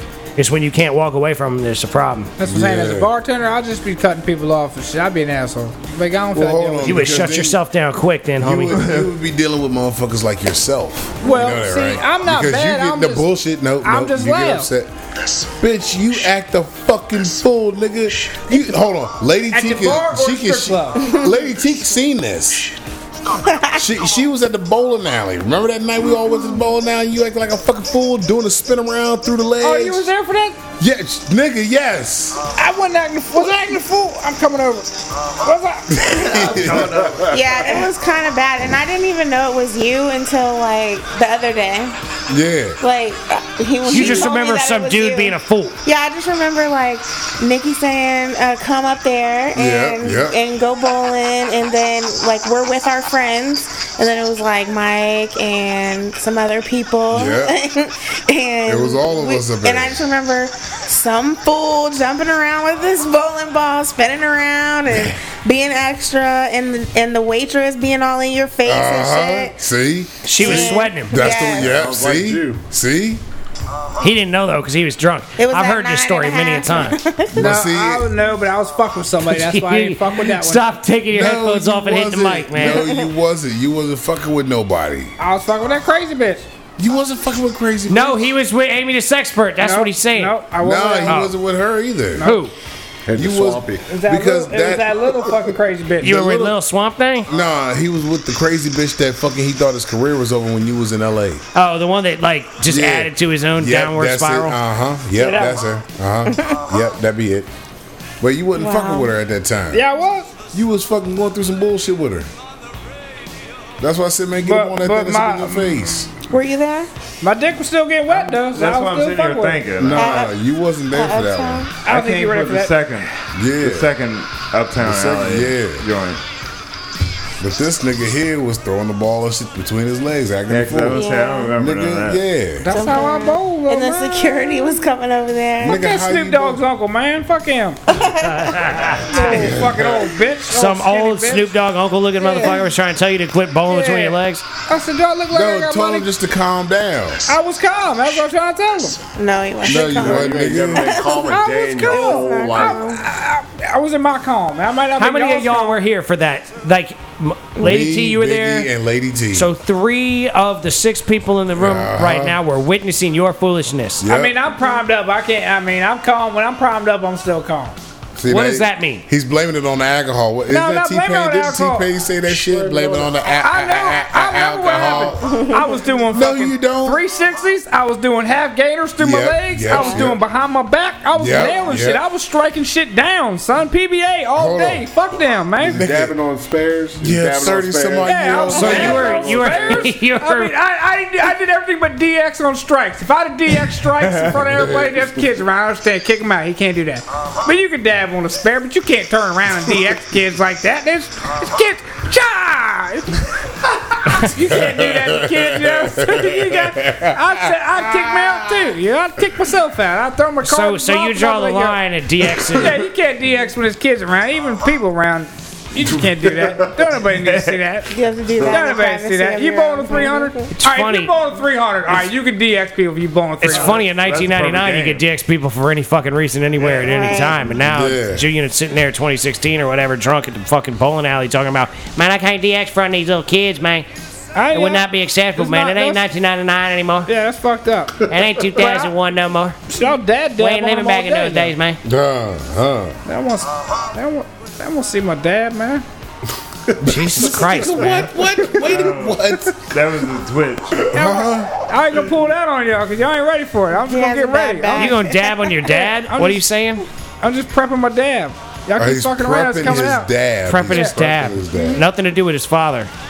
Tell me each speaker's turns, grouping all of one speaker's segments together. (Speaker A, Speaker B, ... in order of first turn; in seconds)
Speaker A: 0.4-2.3, 6.8-8.8, 43.9-45.8, 70.2-71.2, 74.0-77.0, 79.3-82.9, 87.9-90.4, 91.0-91.3, 92.2-92.5, 96.0-97.3, 101.5-104.6, 138.1-139.5, 140.5-144.4, 155.0-158.7, 159.3-164.1, 168.3-169.1, 188.5-190.5, 204.1-204.3, 210.4-212.8, 220.5-221.2, 223.4-233.9, 234.5-237.1, 238.1-239.6, 240.4-241.8, 246.8-248.1, 254.8-256.9, 260.5-262.9
Speaker B: 2.4-7.1, 11.2-13.3, 13.8-14.7, 19.5-21.2, 29.6-30.6, 32.5-36.6, 77.4-80.7, 85.2-86.5, 89.6-91.3, 92.2-92.5, 93.9-96.2, 105.2-105.6, 109.7-110.3, 114.5-115.8, 117.2-119.7, 121.8-122.8, 132.6-134.9, 135.6-137.8, 139.1-141.5, 142.2-142.6, 143.7-146.1, 147.3-149.0, 151.3-155.8, 164.0-167.8, 170.5-171.9, 173.3-185.8, 188.0-203.3, 203.9-211.8, 212.4-223.8, 234.3-236.0, 237.1-238.9, 239.7-241.5, 243.1-245.8, 250.9-255.0, 255.8-256.4, 257.2-260.1, 260.6-260.9
Speaker C: 2.4-3.1, 6.3-7.6, 8.4-22.8, 23.7-30.1, 30.8-32.5, 35.9-37.4, 42.3-42.8, 49.5-50.4, 57.1-57.6, 58.7-60.0, 68.7-73.2, 77.3-78.1, 81.1-85.1, 86.8-88.3, 90.6-92.3, 93.2-95.1, 96.0-96.6, 97.3-101.4, 102.7-107.5, 108.2-109.8, 110.5-112.3, 113.8-116.1, 119.8-121.7, 123.3-123.9, 124.8-125.8, 127.4-132.8, 135.6-136.6, 139.3-140.1, 145.3-147.4, 149.6-151.1, 157.6-159.5, 161.6-162.4, 164.0-164.4, 168.2-175.5, 176.1-177.0, 179.0-180.2, 181.2-182.0, 184.3-184.8, 185.7-186.1, 187.0-189.6, 204.5-208.7, 227.6-228.2, 241.8-243.0, 246.8-249.7, 250.9-251.5, 258.8-261.8
Speaker D: 23.4-23.8, 37.3-42.0, 42.8-69.5, 70.3-71.8, 75.4-77.5, 82.6-83.1, 108.6-109.1, 116.3-116.9, 119.9-120.3, 120.9-121.7, 130.9-131.5, 132.7-135.8, 137.9-139.6, 149.2-153.0, 175.4-175.7, 179.7-180.0, 217.9-220.5, 226.7-227.5, 253.8-255.6
Speaker E: 36.2-37.7, 118.1-120.2, 121.9-126.2, 130.5-132.2, 217.1-217.6, 223.4-225.0, 248.6-250.9
Speaker F: 71.6-72.6, 93.1-94.0, 149.7-152.9, 172.3-173.2, 185.6-189.8, 215.9-216.7